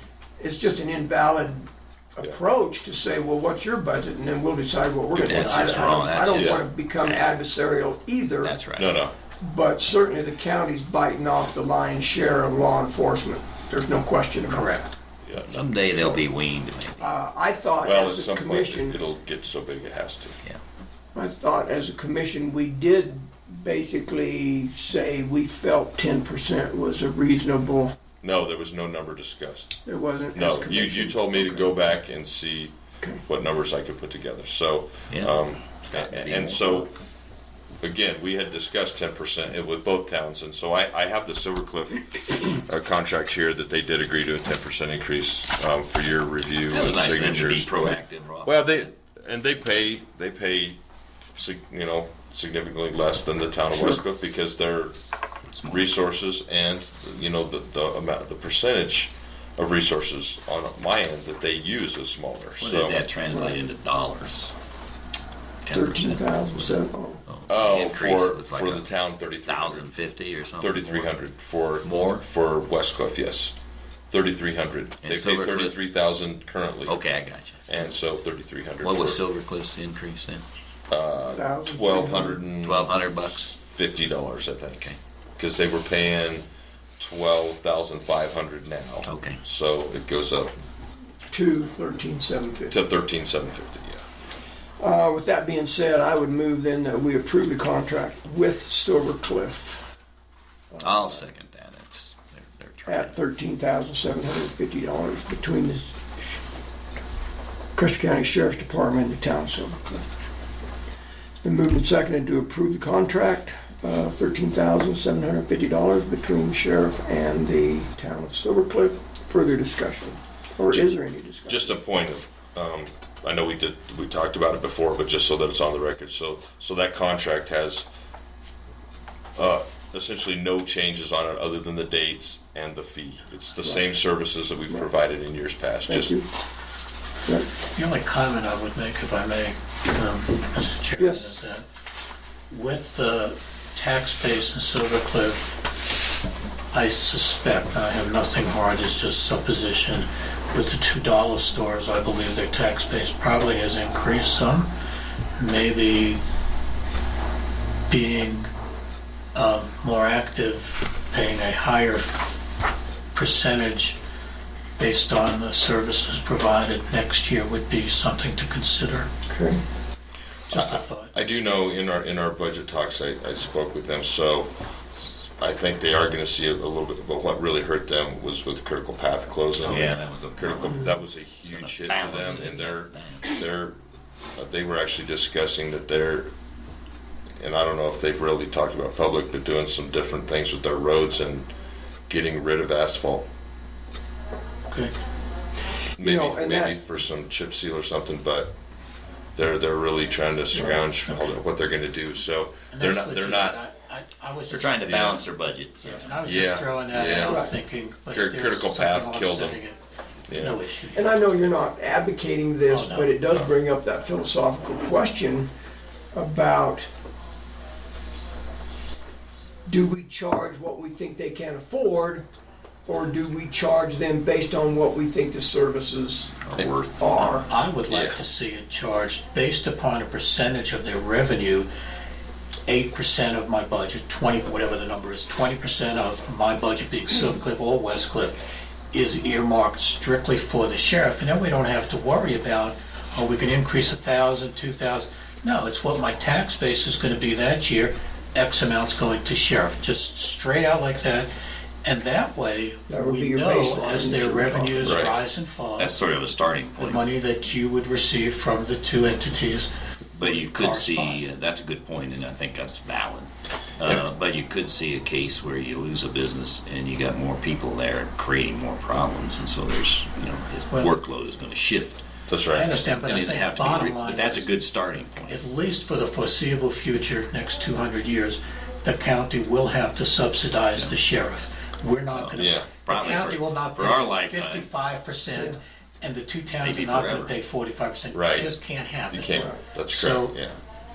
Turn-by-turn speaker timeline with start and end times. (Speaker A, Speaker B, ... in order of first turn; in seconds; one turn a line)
Speaker A: 0.4-8.5
Speaker B: 5.1-7.3
Speaker C: 5.3-6.1
Speaker D: 6.3-6.6
Speaker B: 8.4-9.0
Speaker D: 8.8-9.1
Speaker A: 9.4-14.7
Speaker C: 14.5-14.9
Speaker D: 15.2-16.2
Speaker B: 15.4-17.1
Speaker A: 17.0-19.0
Speaker D: 17.8-20.4
Speaker A: 21.1-27.9
Speaker D: 28.2-29.8
Speaker A: 29.8-31.2
Speaker D: 30.3-36.9
Speaker B: 31.3-31.7
Speaker B: 35.1-36.9
Speaker D: 37.8-50.8
Speaker B: 46.7-48.9
Speaker D: 51.4-55.0
Speaker A: 53.7-54.0
Speaker B: 55.5-55.8
Speaker D: 55.6-63.0
Speaker B: 62.6-64.5
Speaker B: 65.6-68.9
Speaker A: 65.7-67.2
Speaker D: 67.5-69.9
Speaker B: 69.5-71.2
Speaker D: 70.6-73.5
Speaker B: 71.8-72.2
Speaker D: 74.1-77.0
Speaker B: 75.0-75.8
Speaker B: 76.8-77.6
Speaker D: 77.7-79.2
Speaker B: 78.8-80.4
Speaker D: 80.9-86.4
Speaker A: 81.2-82.4
Speaker B: 82.6-83.5
Speaker D: 87.0-90.5
Speaker B: 89.0-89.4
Speaker A: 91.3-92.8
Speaker D: 92.7-94.0
Speaker A: 94.8-99.9
Speaker A: 100.7-101.2
Speaker B: 100.8-103.2
Speaker A: 102.9-106.0
Speaker A: 107.8-110.0
Speaker A: 111.4-121.8
Speaker D: 121.5-127.9
Speaker D: 129.3-136.2
Speaker A: 135.9-136.2
Speaker C: 137.7-141.6
Speaker A: 141.0-141.3
Speaker C: 142.5-145.7
Speaker C: 146.7-154.7
Speaker C: 155.4-156.2
Speaker C: 157.9-158.5
Speaker C: 159.3-162.3
Speaker C: 163.1-164.0
Speaker C: 164.8-169.1
Speaker A: 169.3-169.6
Speaker D: 170.5-174.5
Speaker C: 170.5-171.1
Speaker D: 175.4-183.8
Speaker B: 179.6-183.4
Speaker D: 184.3-186.3
Speaker D: 187.4-191.5
Speaker D: 192.1-193.2
Speaker D: 196.0-198.5
Speaker A: 196.0-196.8
Speaker D: 199.3-203.6
Speaker C: 200.5-201.4
Speaker C: 202.7-205.2
Speaker B: 204.5-206.2
Speaker D: 204.8-205.2
Speaker C: 205.8-209.8
Speaker D: 206.2-207.5
Speaker A: 207.2-207.5
Speaker D: 208.1-209.6
Speaker D: 210.3-210.6
Speaker C: 210.3-211.1
Speaker A: 210.9-215.5
Speaker C: 212.7-213.2
Speaker A: 216.1-216.9
Speaker A: 219.7-222.2
Speaker A: 222.8-226.4
Speaker B: 226.4-227.4
Speaker A: 227.0-227.5
Speaker C: 227.2-231.7
Speaker D: 227.9-228.2
Speaker C: 232.7-238.4
Speaker C: 238.9-251.3
Speaker C: 251.8-256.0
Speaker A: 252.9-255.0
Speaker D: 254.8-255.2
Speaker B: 255.8-257.0
Speaker C: 256.8-261.2
Speaker B: 260.2-272.0
Speaker D: 272.3-272.7
Speaker C: 272.5-274.4
Speaker B: 273.0-275.4
Speaker C: 275.3-290.3
Speaker B: 282.1-284.7
Speaker D: 282.4-282.7
Speaker B: 286.6-287.4
Speaker D: 288.1-288.5
Speaker D: 289.1-290.5